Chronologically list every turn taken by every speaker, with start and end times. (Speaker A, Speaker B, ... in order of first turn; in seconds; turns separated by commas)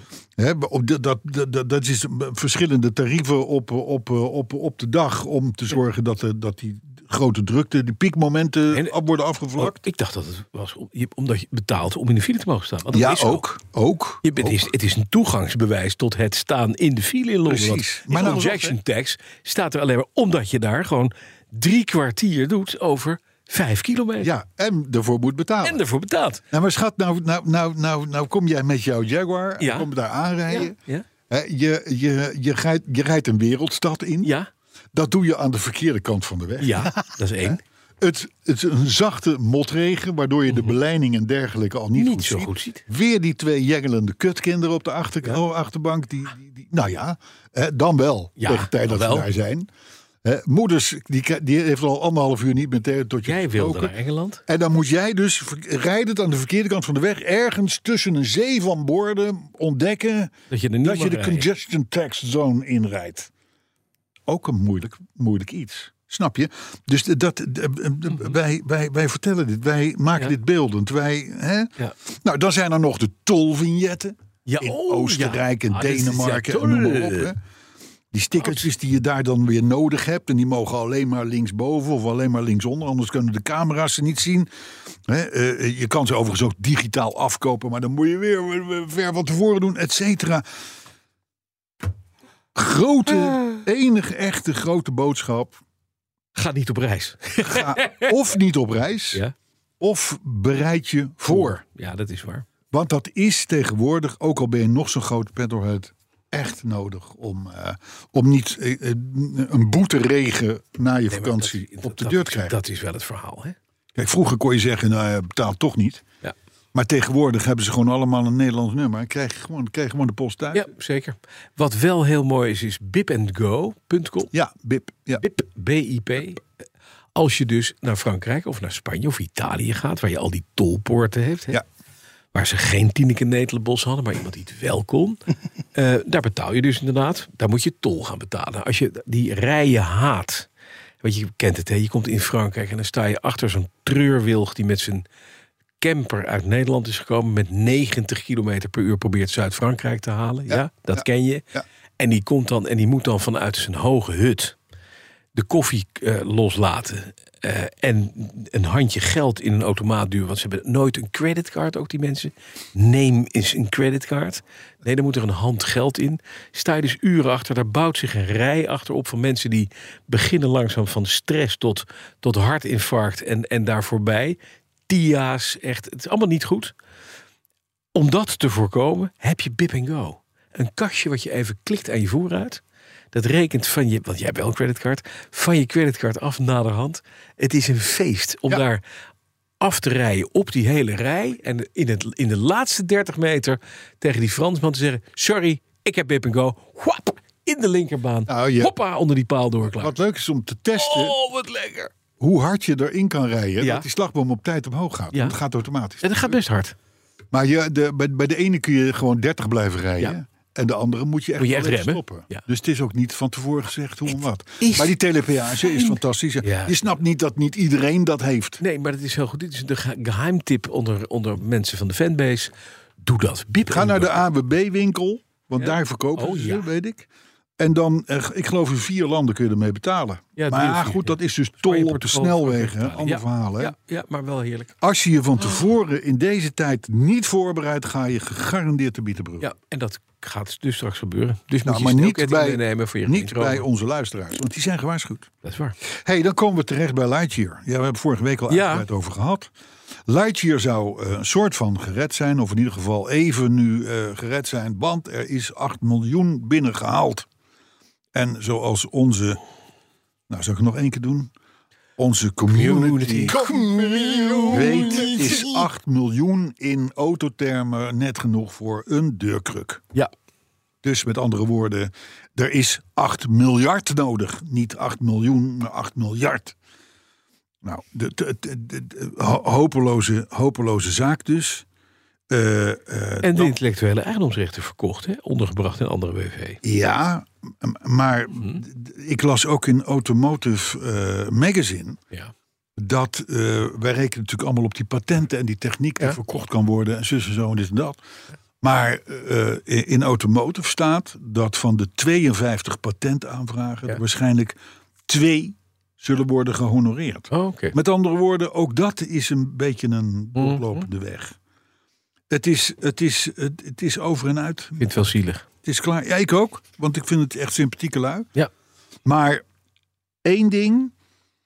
Speaker A: 0.4-9.8, Speaker B: 8.7-9.0, Speaker B: 9.6-13.4, Speaker A: 12.9-14.7, Speaker B: 14.2-24.3, Speaker A: 17.5-18.8, Speaker A: 24.2-25.8, Speaker B: 25.6-26.4, Speaker A: 26.5-30.8, Speaker B: 29.6-29.9, Speaker B: 30.5-31.1, Speaker A: 31.3-34.3, Speaker B: 34.2-34.5, Speaker A: 34.9-49.7, Speaker B: 36.6-37.6, Speaker B: 40.5-40.7, Speaker B: 42.0-42.8, Speaker B: 48.4-49.3, Speaker A: 50.2-53.9, Speaker B: 53.2-54.4, Speaker A: 54.5-63.3, Speaker B: 60.5-61.5, Speaker A: 64.3-77.4, Speaker B: 74.5-77.3, Speaker A: 78.1-84.5, Speaker B: 78.4-78.7, Speaker A: 85.1-90.4, Speaker A: 92.5-95.6, Speaker B: 93.4-93.6, Speaker B: 96.3-98.1, Speaker A: 97.4-99.2, Speaker A: 99.8-101.6, Speaker B: 101.3-102.5, Speaker A: 102.7-112.6, Speaker B: 111.1-113.6, Speaker A: 114.0-116.0, Speaker A: 116.7-120.7, Speaker B: 120.5-124.3, Speaker A: 124.3-125.2, Speaker B: 125.2-126.5, Speaker B: 127.2-131.6, Speaker B: 132.3-135.2, Speaker B: 135.8-140.5, Speaker B: 141.0-145.1, Speaker B: 145.8-151.4, Speaker A: 150.5-151.7, Speaker B: 152.0-154.6, Speaker B: 155.3-176.7, Speaker B: 177.9-188.8, Speaker B: 189.6-199.9, Speaker A: 198.3-198.7, Speaker A: 199.7-201.2, Speaker B: 200.8-201.9, Speaker A: 202.2-206.4, Speaker B: 203.6-203.9, Speaker B: 206.0-206.8, Speaker A: 207.3-218.6, Speaker B: 211.4-212.5, Speaker B: 214.6-214.9, Speaker B: 215.5-216.8, Speaker B: 218.6-224.2, Speaker A: 223.7-233.8, Speaker B: 225.6-226.7, Speaker B: 230.4-234.7, Speaker A: 234.8-239.5, Speaker B: 239.4-243.7, Speaker A: 241.6-245.3, Speaker B: 245.4-245.8, Speaker A: 245.9-249.5, Speaker B: 248.5-248.9, Speaker A: 250.1-257.3, Speaker A: 258.1-259.4, Speaker A: 260.3-261.3, Speaker A: 262.0-269.9, Speaker B: 262.5-265.5, Speaker A: 270.8-276.6, Speaker A: 277.6-281.7, Speaker A: 282.3-283.6, Speaker B: 283.2-286.6, Speaker A: 286.6-292.0, Speaker A: 292.8-298.0, Speaker A: 298.6-311.4, Speaker B: 307.3-307.8, Speaker B: 310.4-310.9, Speaker A: 312.3-314.9, Speaker B: 314.8-315.5, Speaker A: 315.6-318.3, Speaker A: 319.1-319.4, Speaker A: 320.2-320.9